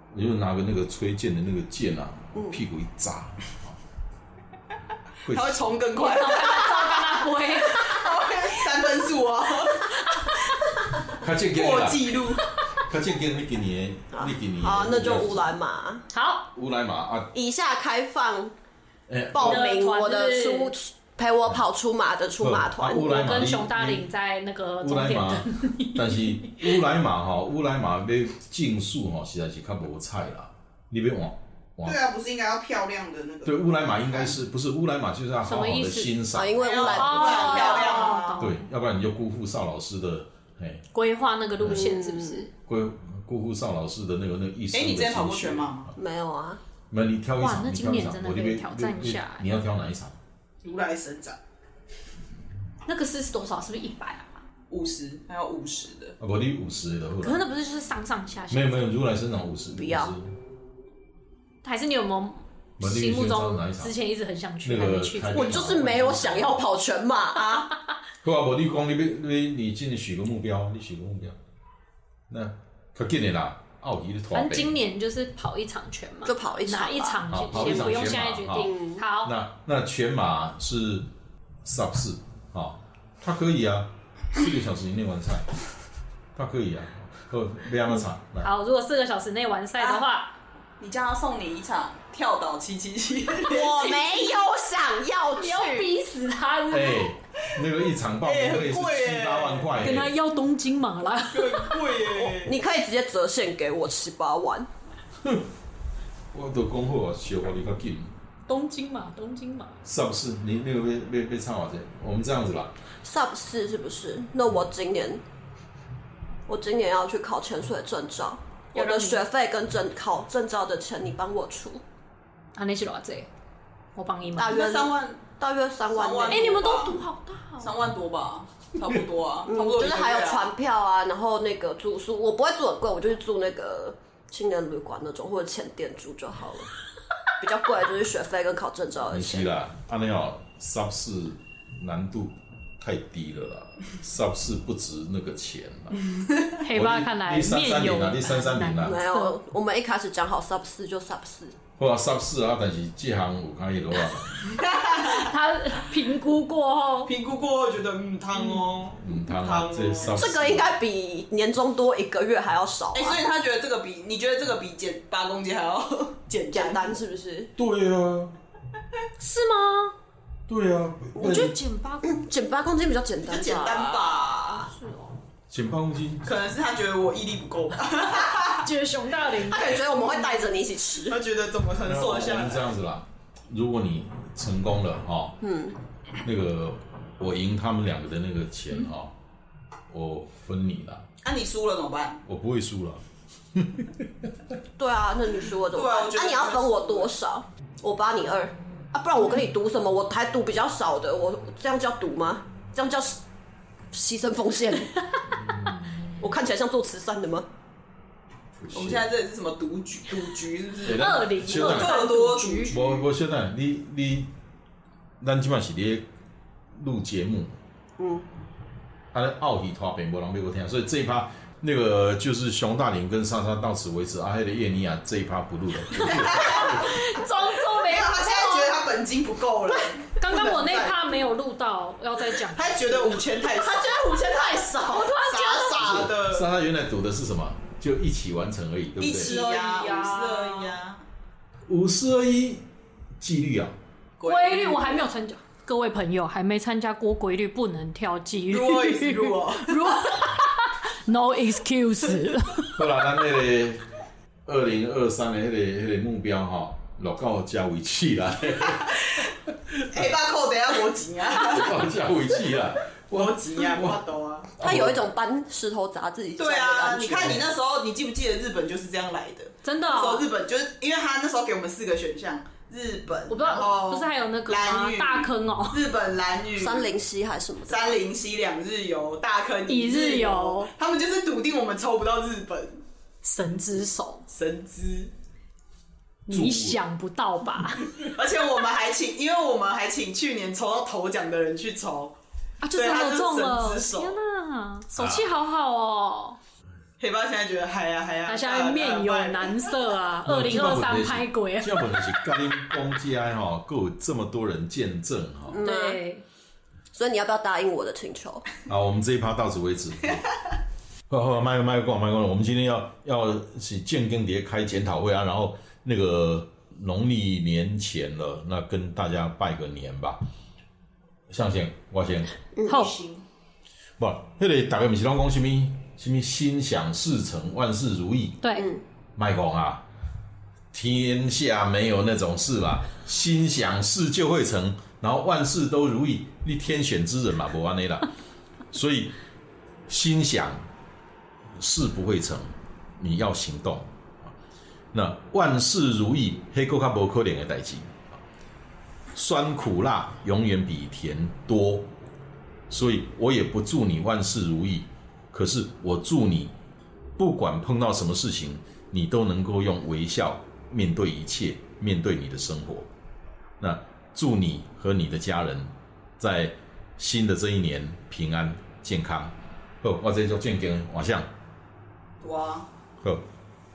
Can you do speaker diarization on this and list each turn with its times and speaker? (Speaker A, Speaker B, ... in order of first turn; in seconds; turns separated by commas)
Speaker A: 0.1-3.8, Speaker B: 2.4-2.6, Speaker A: 5.2-5.7, Speaker C: 5.3-9.9, Speaker D: 6.0-8.0, Speaker D: 9.9-10.4, Speaker A: 11.1-12.2, Speaker C: 11.5-12.5, Speaker A: 12.7-15.5, Speaker B: 14.1-16.0, Speaker D: 16.1-16.5, Speaker A: 16.5-17.3, Speaker B: 17.3-18.5, Speaker A: 19.1-19.7, Speaker B: 19.3-23.1, Speaker D: 19.4-20.7, Speaker A: 22.4-24.1, Speaker D: 22.9-26.6, Speaker A: 24.8-32.0, Speaker C: 31.8-34.4, Speaker A: 33.5-36.6, Speaker D: 35.4-36.2, Speaker B: 36.3-38.2, Speaker C: 36.6-38.5, Speaker D: 36.8-38.6, Speaker A: 38.4-40.8, Speaker D: 40.9-42.5, Speaker A: 41.6-41.9, Speaker B: 41.6-42.5, Speaker A: 42.7-45.9, Speaker C: 44.7-45.9, Speaker B: 45.9-46.6, Speaker A: 46.9-50.2, Speaker D: 47.4-49.5, Speaker C: 50.6-51.4, Speaker D: 52.9-54.4, Speaker C: 54.7-56.2, Speaker A: 56.2-57.4, Speaker D: 57.2-58.9, Speaker A: 58.5-60.3, Speaker B: 59.8-60.1, Speaker D: 61.6-65.7, Speaker A: 62.8-63.9, Speaker A: 64.6-66.7, Speaker B: 65.3-67.7, Speaker A: 68.2-71.4, Speaker A: 72.3-74.8, Speaker D: 74.3-79.3, Speaker B: 76.2-79.0, Speaker A: 77.3-81.1, Speaker A: 81.6-85.5, Speaker A: 86.3-88.5, Speaker D: 88.4-90.3, Speaker C: 89.8-90.0, Speaker C: 90.8-93.8, Speaker B: 93.5-95.9, Speaker D: 93.8-94.3, Speaker D: 95.4-97.1, Speaker A: 96.7-100.1, Speaker C: 98.2-99.9, Speaker D: 99.8-102.1, Speaker C: 101.3-102.6, Speaker B: 102.4-104.7, Speaker A: 106.3-108.1, Speaker D: 108.5-109.8, Speaker A: 109.8-112.7, Speaker B: 113.0-115.2, Speaker B: 116.5-121.8, Speaker D: 118.8-119.3, Speaker D: 122.5-123.3, Speaker D: 124.0-124.6, Speaker B: 124.4-126.9, Speaker C: 124.5-125.2, Speaker C: 125.9-127.0, Speaker D: 126.3-127.7, Speaker C: 127.6-130.5, Speaker B: 129.5-136.7, Speaker B: 137.4-139.5, Speaker A: 139.1-146.0, Speaker D: 146.6-149.4, Speaker A: 146.7-149.0, Speaker B: 148.8-151.6, Speaker A: 151.8-154.4, Speaker C: 154.5-155.3, Speaker D: 155.0-157.1, Speaker C: 157.1-160.2, Speaker A: 159.0-160.7, Speaker B: 160.1-163.2, Speaker C: 162.9-167.0, Speaker B: 166.5-167.5, Speaker A: 167.6-168.3, Speaker D: 169.3-169.9, Speaker A: 170.5-171.6, Speaker B: 171.2-171.5, Speaker D: 171.2-172.3, Speaker B: 172.0-174.4, Speaker C: 173.2-174.7, Speaker D: 174.7-175.2, Speaker A: 175.5-176.3, Speaker C: 176.2-178.7, Speaker D: 178.5-179.9, Speaker B: 179.4-181.2, Speaker C: 179.9-180.4, Speaker C: 181.0-182.7, Speaker A: 181.8-185.4, Speaker B: 185.4-185.8, Speaker A: 186.2-189.1, Speaker A: 189.9-191.1, Speaker C: 191.2-192.2, Speaker A: 192.2-193.0, Speaker A: 193.5-194.3, Speaker B: 194.8-203.2, Speaker C: 195.7-197.2, Speaker B: 203.9-205.0, Speaker B: 206.2-207.5, Speaker A: 208.6-209.1, Speaker C: 208.7-213.1, Speaker A: 210.8-212.0, Speaker D: 210.9-212.7, Speaker A: 212.7-214.3, Speaker A: 215.2-216.1, Speaker A: 216.8-217.6, Speaker B: 218.0-218.3, Speaker A: 219.1-227.0, Speaker C: 226.0-226.7, Speaker D: 226.5-228.7, Speaker C: 227.7-231.0, Speaker D: 230.2-233.0, Speaker C: 232.4-234.0, Speaker B: 233.5-235.8, Speaker C: 235.1-236.5, Speaker A: 235.8-239.4, Speaker C: 239.0-241.0, Speaker D: 239.2-240.7, Speaker A: 241.7-242.7, Speaker A: 243.2-243.8, Speaker C: 244.2-245.1, Speaker D: 244.2-252.8, Speaker C: 248.5-250.2, Speaker A: 252.8-253.8, Speaker A: 254.5-260.1, Speaker C: 258.8-259.2, Speaker C: 259.9-261.8, Speaker A: 261.4-264.0, Speaker C: 263.1-264.5, Speaker A: 264.6-265.0, Speaker B: 264.6-267.4, Speaker C: 266.4-276.9, Speaker D: 269.6-270.2, Speaker D: 273.3-275.8, Speaker B: 276.6-278.0, Speaker C: 277.7-282.8, Speaker D: 279.7-280.7, Speaker D: 283.2-284.2, Speaker C: 284.3-285.1, Speaker D: 286.3-287.9, Speaker A: 286.3-286.8, Speaker C: 288.0-292.2, Speaker D: 292.6-296.4, Speaker C: 292.8-294.2, Speaker A: 295.0-295.3, Speaker C: 297.0-299.7, Speaker D: 298.3-302.2, Speaker A: 300.2-305.6, Speaker B: 305.5-306.0, Speaker D: 305.6-306.2, Speaker B: 306.9-308.5, Speaker A: 308.7-310.2, Speaker A: 311.1-320.2, Speaker A: 321.3-322.3, Speaker B: 322.6-322.9, Speaker D: 322.7-323.0, Speaker C: 322.7-323.2, Speaker A: 324.0-328.4, Speaker D: 328.4-328.7, Speaker B: 328.6-328.8, Speaker A: 329.2-329.8, Speaker A: 330.7-338.1, Speaker A: 338.7-339.1, Speaker A: 339.9-340.6, Speaker A: 341.6-344.3, Speaker A: 344.9-348.2, Speaker A: 349.1-351.9, Speaker A: 352.7-356.5, Speaker A: 357.2-362.9, Speaker A: 363.6-371.3, Speaker C: 372.2-372.7